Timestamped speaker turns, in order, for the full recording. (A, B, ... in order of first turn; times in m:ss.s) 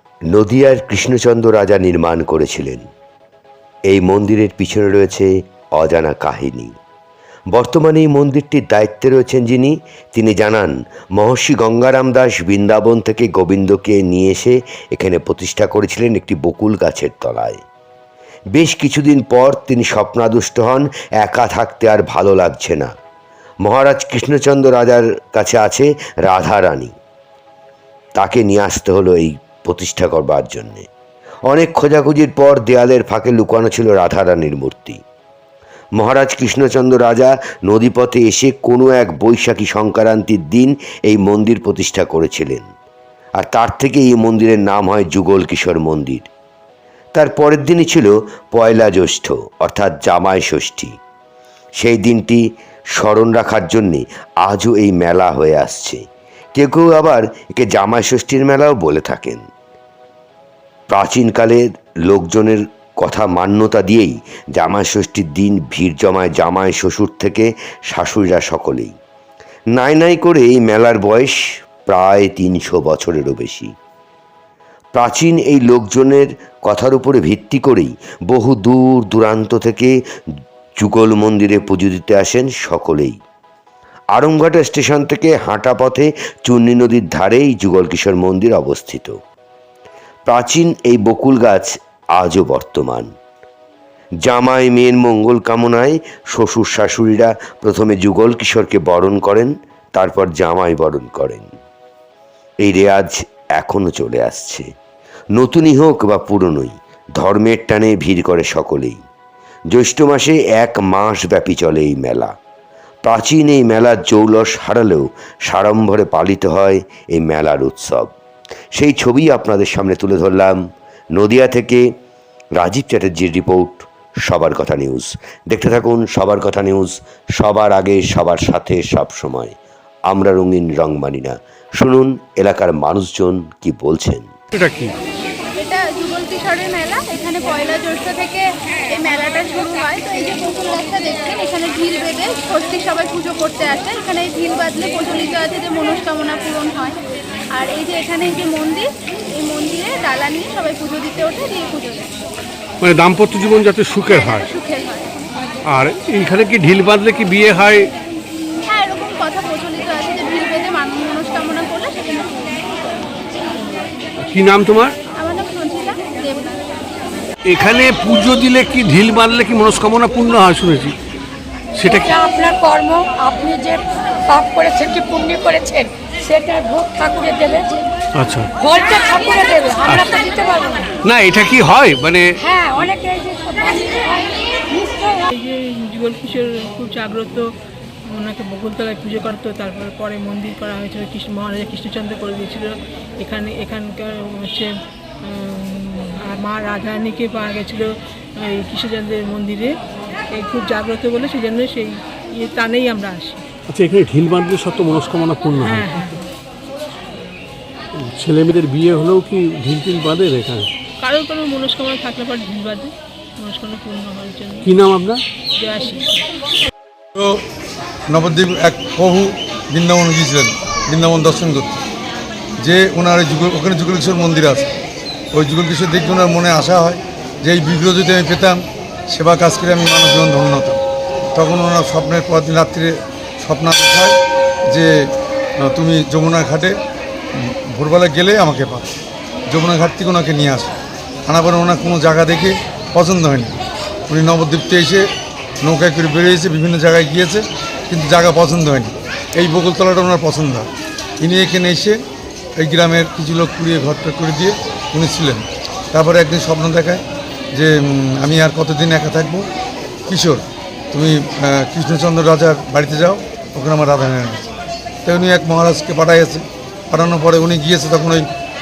0:00.3-0:02.8 A
0:03.9-0:06.7 A
0:07.5-0:17.6 A
0:18.6-0:22.9 A
0:23.6-0:26.9 A
0:28.2-0:30.9 A
0:31.5-0:35.0 A
0:36.0-0:42.7 A
0:43.4-0:46.3 A
0:47.2-0:51.0 A
0:51.8-0:52.4 A
0:53.0-0:56.0 A
0:56.6-0:59.4 A
1:00.9-1:08.9 A
1:09.8-1:13.7 A
1:14.9-1:20.0 A
1:20.8-1:23.2 A
1:24.1-1:29.2 A
1:30.3-1:33.1 A
1:34.2-1:41.5 A
1:42.6-1:44.7 A
1:45.4-1:49.0 A
1:49.7-1:52.3 A
1:53.1-1:58.1 A
1:58.8-2:00.6 A
2:01.2-2:01.9 A
2:02.6-2:09.6 A
2:10.1-2:14.3 A
2:14.5-2:14.9 B
2:15.6-2:27.0 C
2:27.5-2:32.2 C
2:32.8-2:34.5 B
2:34.1-2:35.3 C
2:35.7-2:37.9 B
2:38.7-2:42.7 C
2:44.2-2:45.0 B
2:45.2-2:46.6 C
2:47.4-2:51.0 B
2:51.8-2:52.1 B
2:51.9-2:57.9 D
2:58.2-2:58.5 B
2:58.6-3:00.9 D
2:59.8-3:00.3 B
3:01.0-3:02.4 B
3:02.4-3:05.3 D
3:05.3-3:07.5 E
3:08.1-3:19.8 E
3:20.3-3:23.4 E
3:23.7-3:26.1 B
3:25.6-3:26.2 E
3:28.0-3:30.7 B
3:31.0-3:34.7 E
3:34.6-3:35.2 B
3:35.6-3:36.1 E
3:37.2-3:37.4 F
3:38.1-3:41.8 F
3:42.6-3:44.7 F
3:45.3-3:50.8 F
3:51.4-3:54.2 F
3:54.7-3:56.8 F
3:57.4-3:58.9 F
3:59.5-4:00.7 F
4:01.3-4:03.6 F
4:04.1-4:05.0 F
4:05.6-4:10.7 F
4:11.2-4:12.0 F
4:12.6-4:17.0 F
4:17.5-4:19.4 F
4:20.1-4:24.5 F
4:25.0-4:28.3 F